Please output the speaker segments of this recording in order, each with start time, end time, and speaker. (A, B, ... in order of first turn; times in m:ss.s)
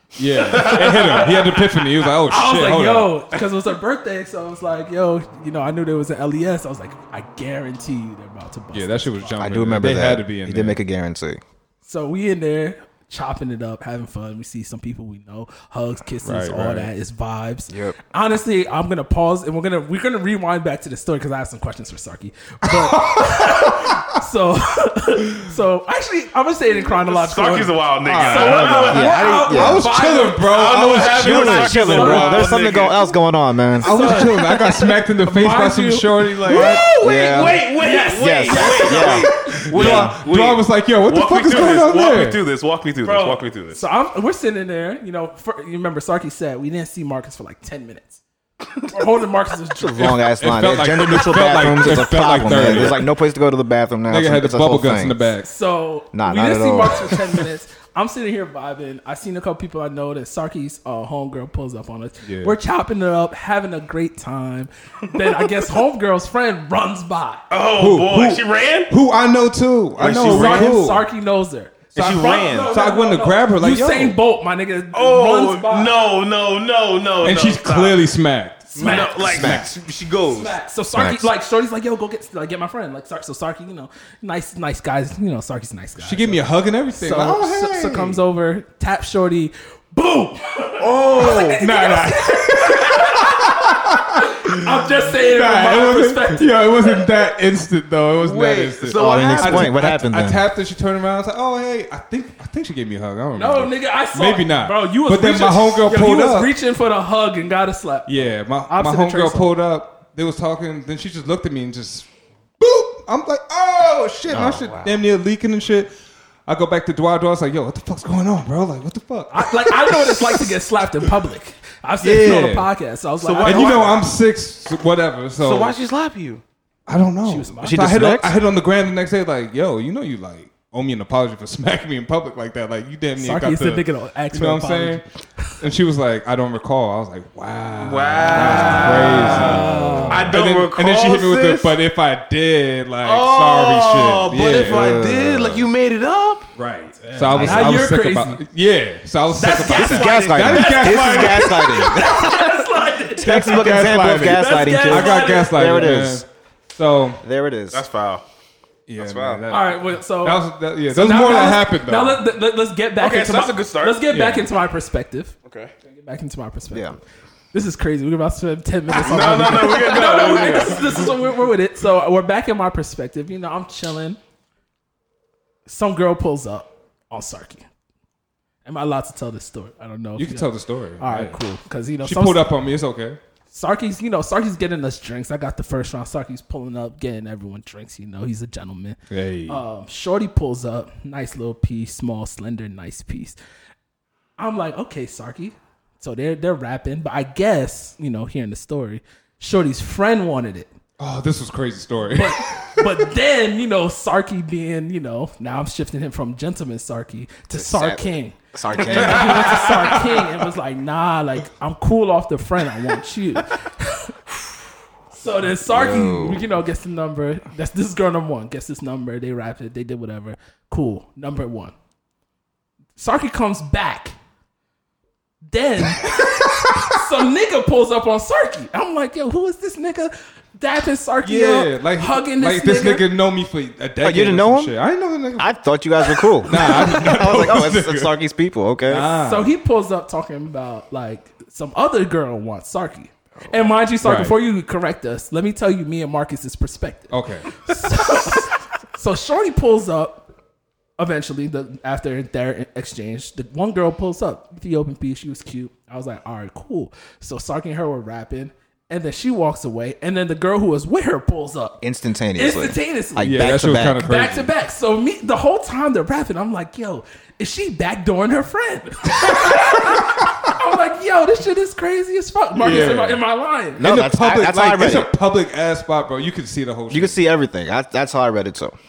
0:00.2-0:03.2 A
0:00.3-0:01.7 B
0:00.6-0:01.3 C
0:02.2-0:09.4 B
0:08.7-0:10.8 A
0:09.4-0:11.4 D
0:11.8-0:32.5 B
0:16.2-0:16.9 A
0:17.7-0:17.9 D
0:22.7-0:24.1 A
0:27.0-0:29.5 C
0:28.0-0:29.9 D
0:29.5-0:32.4 A
0:30.5-0:33.1 C
0:31.1-0:34.2 D
0:33.8-0:36.9 A
0:33.8-0:39.5 B
0:36.2-0:43.8 C
0:36.9-0:37.6 D
0:38.2-0:40.1 D
0:39.5-0:42.4 A
0:43.0-0:48.2 B
0:48.9-0:50.1 B
0:49.8-0:55.2 D
0:50.0-0:53.1 A
0:54.1-0:55.5 A
0:55.4-1:07.4 B
0:56.1-0:57.2 D
1:02.2-1:02.6 A
1:07.5-1:08.9 C
1:07.8-1:11.1 A
1:10.0-1:10.7 C
1:10.1-1:15.9 B
1:11.9-1:12.7 C
1:12.0-1:14.2 A
1:14.9-1:18.0 C
1:17.2-1:19.7 A
1:18.7-1:20.6 C
1:18.8-1:19.3 B
1:19.1-1:19.7 D
1:20.3-1:37.1 B
1:20.9-1:21.3 D
1:26.0-1:28.2 A
1:30.8-1:31.6 C
1:31.0-1:46.5 A
1:38.2-1:39.8 C
1:38.9-1:40.4 D
1:43.3-1:49.5 B
1:48.0-1:52.1 A
1:52.6-1:55.9 A
1:54.3-1:55.0 D
1:56.5-2:00.5 A
1:59.3-2:04.0 B
2:02.0-2:02.7 A
2:03.2-2:04.0 C
2:03.4-2:05.7 A
2:05.4-2:06.4 C
2:06.9-2:15.0 A
2:07.2-2:07.9 B
2:07.6-2:08.4 D
2:13.2-2:15.5 B
2:15.6-2:24.9 A
2:17.8-2:21.7 C
2:18.3-2:20.3 B
2:19.4-2:20.0 D
2:23.0-2:26.5 C
2:24.5-2:25.6 D
2:26.6-2:31.9 A
2:27.0-2:28.4 B
2:27.3-2:27.7 D
2:29.3-2:35.8 B
2:29.7-2:36.3 D
2:33.2-2:37.2 A
2:37.2-2:37.8 D
2:37.7-2:38.2 C
2:38.9-2:42.2 A
2:39.0-2:39.4 C
2:39.5-2:47.0 B
2:43.0-2:44.0 C
2:44.1-2:44.5 A
2:45.4-2:45.7 C
2:46.7-2:47.0 D
2:47.5-2:54.2 B
2:48.9-2:51.0 C
2:55.6-2:57.6 B
2:58.6-3:02.5 B
3:00.2-3:01.4 A
3:02.0-3:03.2 A
3:03.5-3:13.4 B
3:09.1-3:09.6 A
3:14.4-3:20.7 B
3:21.0-3:23.0 A
3:22.1-3:34.2 B
3:27.5-3:29.7 D
3:28.9-3:29.5 C
3:35.1-3:41.7 B
3:35.6-3:36.4 D
3:43.0-3:44.2 B
3:45.5-3:53.1 B
3:51.2-3:55.5 A
3:54.0-3:54.7 D
3:55.4-3:59.1 D
3:56.1-3:58.2 A
3:58.9-3:59.5 A
3:59.1-4:10.3 B
4:04.0-4:04.4 A
4:07.1-4:07.8 A
4:11.0-4:21.8 B
4:21.8-4:24.0 D
4:22.3-4:33.8 B
4:23.2-4:24.5 A
4:32.6-4:33.2 A
4:33.8-4:37.2 A
4:33.8-4:35.1 D
4:36.9-4:38.8 D